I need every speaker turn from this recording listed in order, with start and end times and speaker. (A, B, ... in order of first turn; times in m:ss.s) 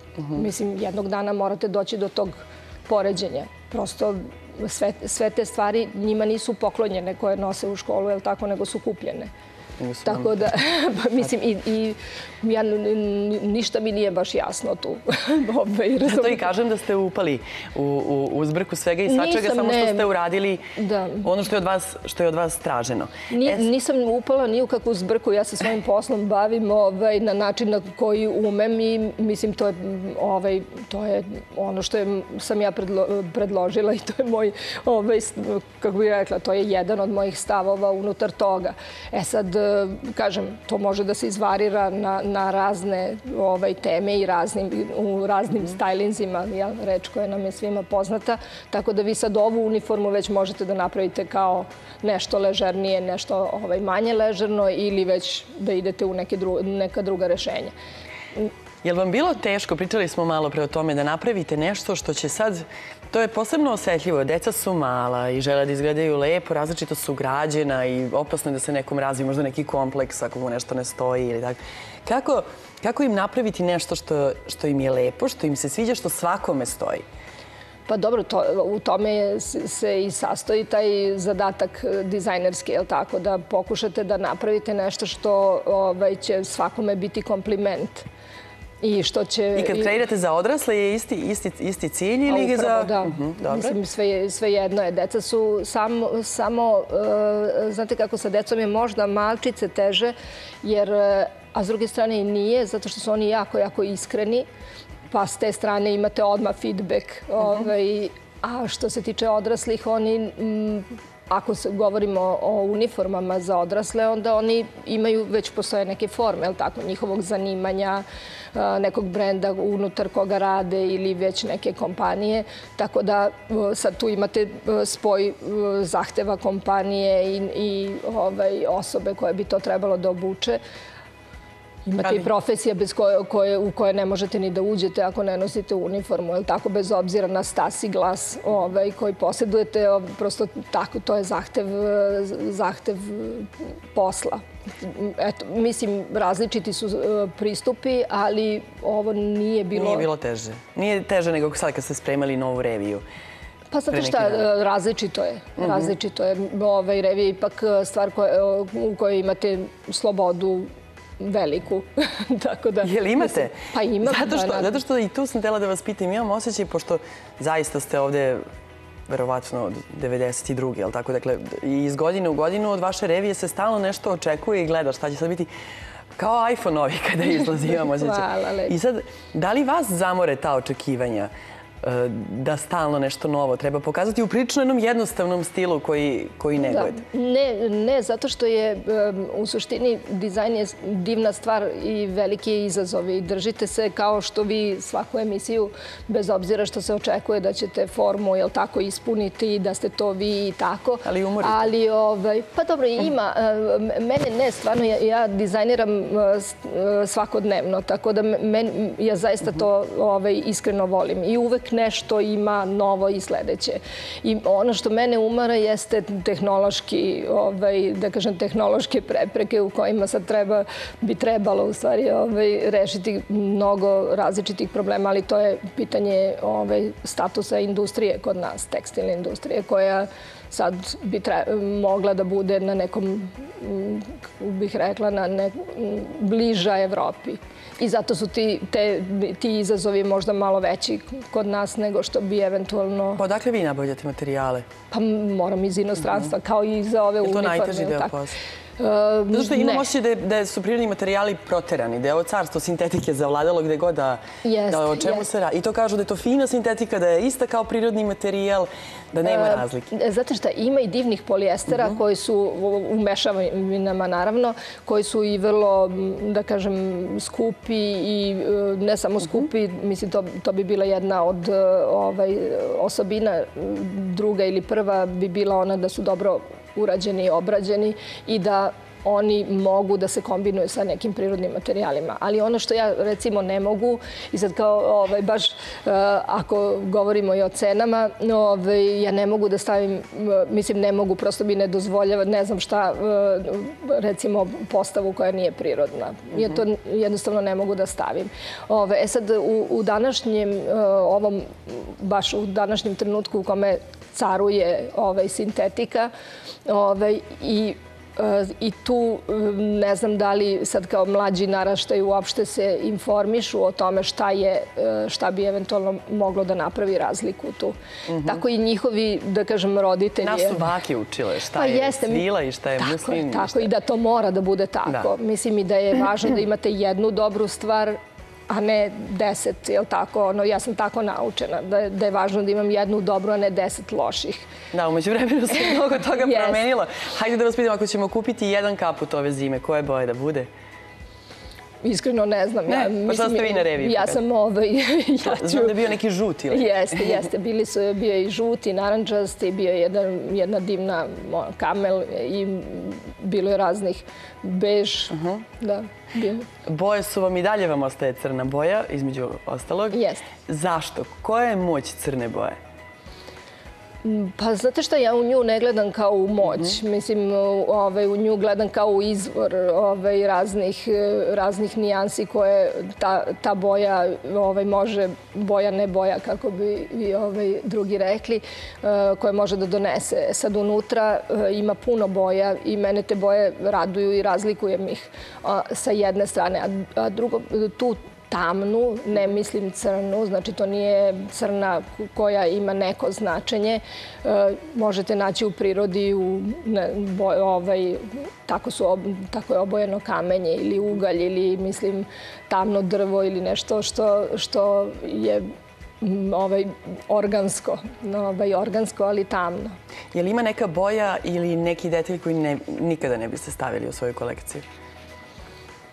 0:00.3-0:09.3 A
0:09.8-0:10.3 B
0:10.0-0:16.5 A
0:16.0-0:20.7 B
0:19.0-0:20.1 A
0:20.8-0:21.3 A
0:21.2-0:23.6 B
0:23.3-0:57.7 A
0:58.8-1:17.0 B
1:17.9-1:28.0 A
1:28.8-1:30.0 A
1:29.6-1:33.8 B
1:32.3-1:44.4 A
1:45.1-2:10.6 A
2:11.8-2:30.1 A
2:29.7-2:33.0 B
2:33.7-2:40.7 A
2:33.9-2:34.4 B
2:35.6-2:35.8 B
2:41.2-2:44.8 A
2:42.8-2:48.4 B
2:49.1-2:55.5 B
2:56.1-3:01.3 B
2:57.6-2:58.7 A
3:01.8-3:07.0 B
3:06.6-4:03.2 A
3:21.0-3:21.7 B
4:03.2-4:04.6 B
4:04.9-4:08.2 A
4:07.2-4:08.4 B
4:08.8-4:09.9 A
4:09.3-4:19.9 B
4:14.4-4:15.3 A
4:19.2-5:06.1 A
5:06.6-5:20.6 A
5:20.2-5:23.7 B
5:21.5-5:28.0 A
5:28.5-5:34.5 A
5:34.7-5:40.5 B
5:35.5-5:36.6 A
5:41.8-5:45.8 A
5:42.7-5:44.2 B
5:45.2-5:47.0 B
5:46.5-5:56.4 A
5:55.1-5:55.4 B
5:56.6-6:02.6 B
5:59.9-6:00.3 A
6:04.0-6:45.4 A
6:46.0-6:49.7 A
6:50.1-6:54.6 B